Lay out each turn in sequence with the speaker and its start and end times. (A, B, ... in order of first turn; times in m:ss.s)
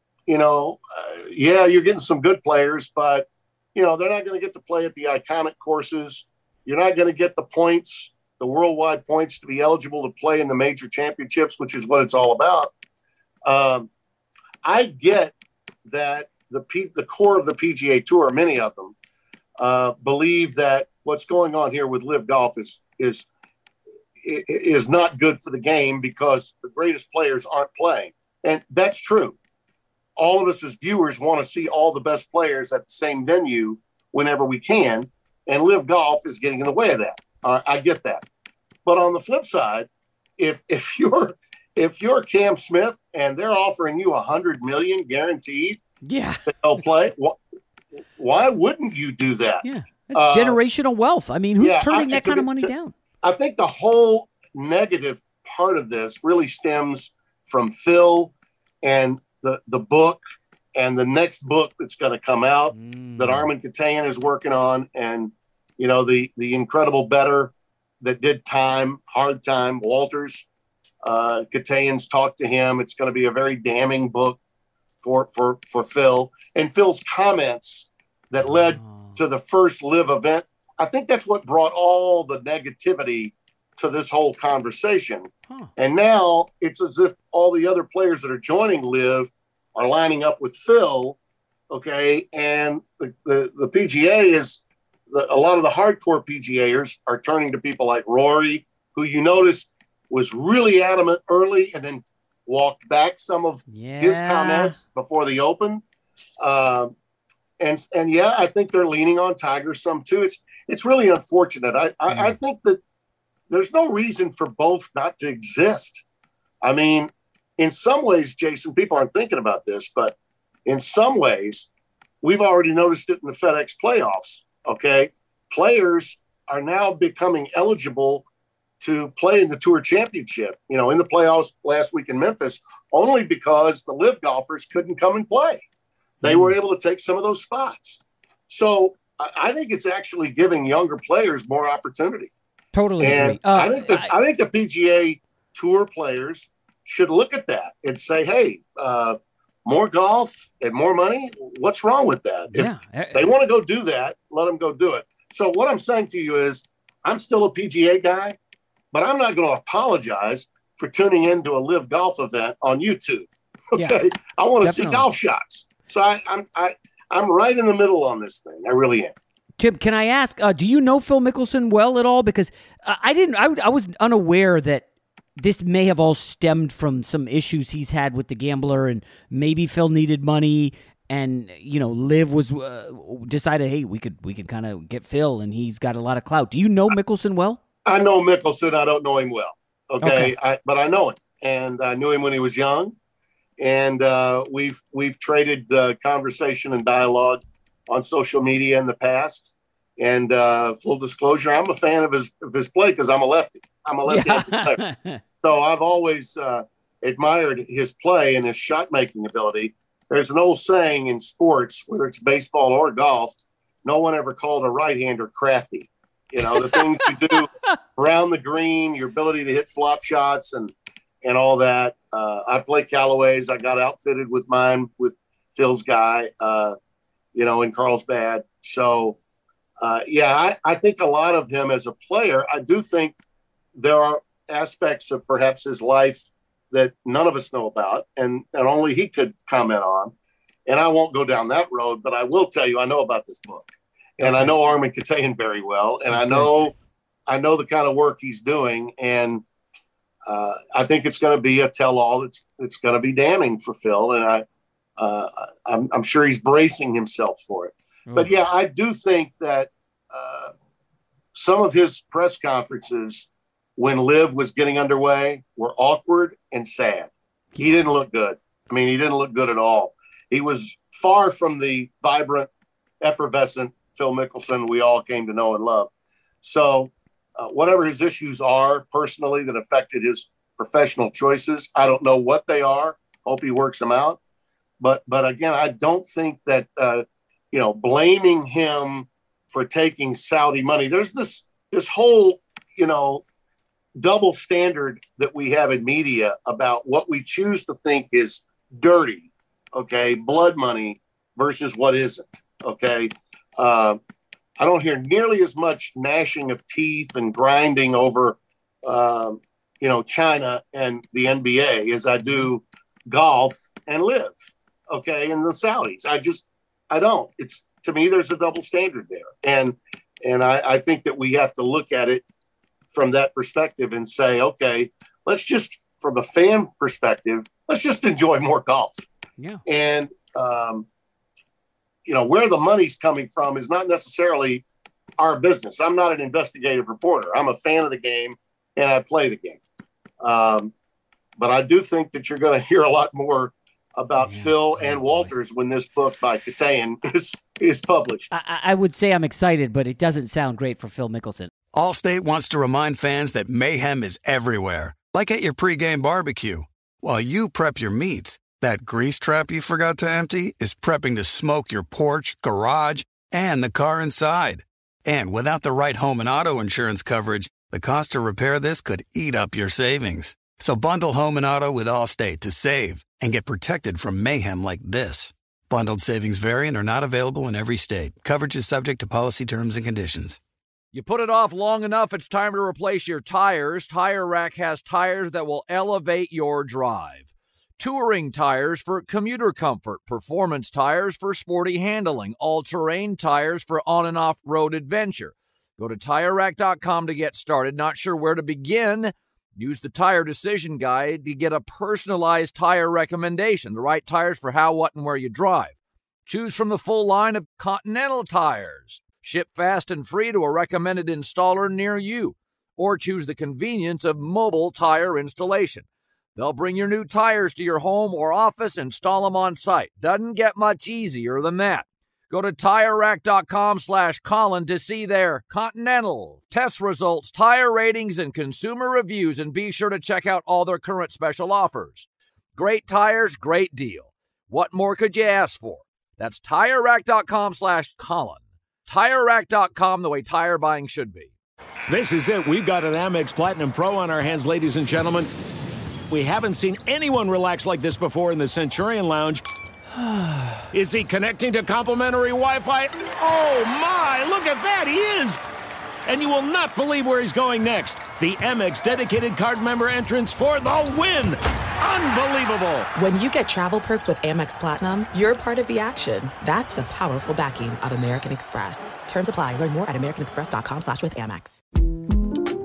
0:00.3-0:12.7 A
0:13.4-0:13.9 A
0:14.6-0:15.3 A
0:15.9-0:18.9 A
0:19.6-0:23.3 A
0:24.2-0:29.4 A
0:30.2-0:38.2 A
0:38.8-0:45.8 A
0:46.0-0:46.4 B
0:46.5-0:47.4 A
0:48.2-0:50.6 A
0:49.6-0:52.9 B
0:51.6-0:52.7 A
0:53.2-1:00.2 A
1:00.8-1:10.4 A
1:02.7-1:03.5 B
1:11.0-1:14.4 A
1:15.0-1:31.2 A
1:18.8-1:19.1 B
1:31.7-1:45.8 A
1:43.7-1:44.8 B
1:46.4-1:46.9 A
1:47.6-1:52.8 A
1:52.1-1:52.3 B
1:53.5-1:56.0 A
1:56.6-2:00.1 A
2:00.6-2:01.7 A
2:02.2-2:08.2 A
2:08.8-2:15.6 A
2:16.2-2:16.5 B
2:16.2-2:22.3 A
2:22.7-2:24.1 B
2:23.0-2:38.4 A
2:32.5-2:33.3 B
2:38.9-2:49.1 A
2:44.6-2:45.0 B
2:49.6-2:54.8 B
2:55.4-3:07.6 B
3:07.8-3:12.9 A
3:10.0-3:10.3 B
3:13.6-3:24.8 A
3:24.1-3:25.2 B
3:25.4-3:46.8 A
3:36.7-3:37.1 B
3:47.3-3:49.2 A
3:49.8-3:53.2 A
3:53.7-4:00.1 A
4:00.7-4:06.7 A
4:04.2-4:04.5 B
4:06.1-4:06.6 B
4:07.3-4:09.4 A
4:10.3-4:14.4 A
4:15.0-4:20.5 A
4:21.3-4:32.5 A
4:33.0-4:35.9 A
4:36.4-4:44.2 A
4:44.8-4:53.2 A
4:54.0-5:04.0 A
5:04.6-5:22.2 A
5:22.9-5:29.0 A
5:29.6-5:30.8 A
5:32.0-5:34.6 A
5:35.2-5:39.6 A
5:40.2-5:40.7 A
5:41.4-5:48.3 A
5:44.2-5:45.3 B
5:48.3-5:51.5 B
5:51.7-6:20.4 C
6:20.9-6:45.7 D
6:46.2-7:21.3 D
7:21.9-7:25.3 E
7:26.1-7:29.4 E
7:30.7-7:35.4 E
7:36.0-7:42.9 E
7:42.9-7:51.6 F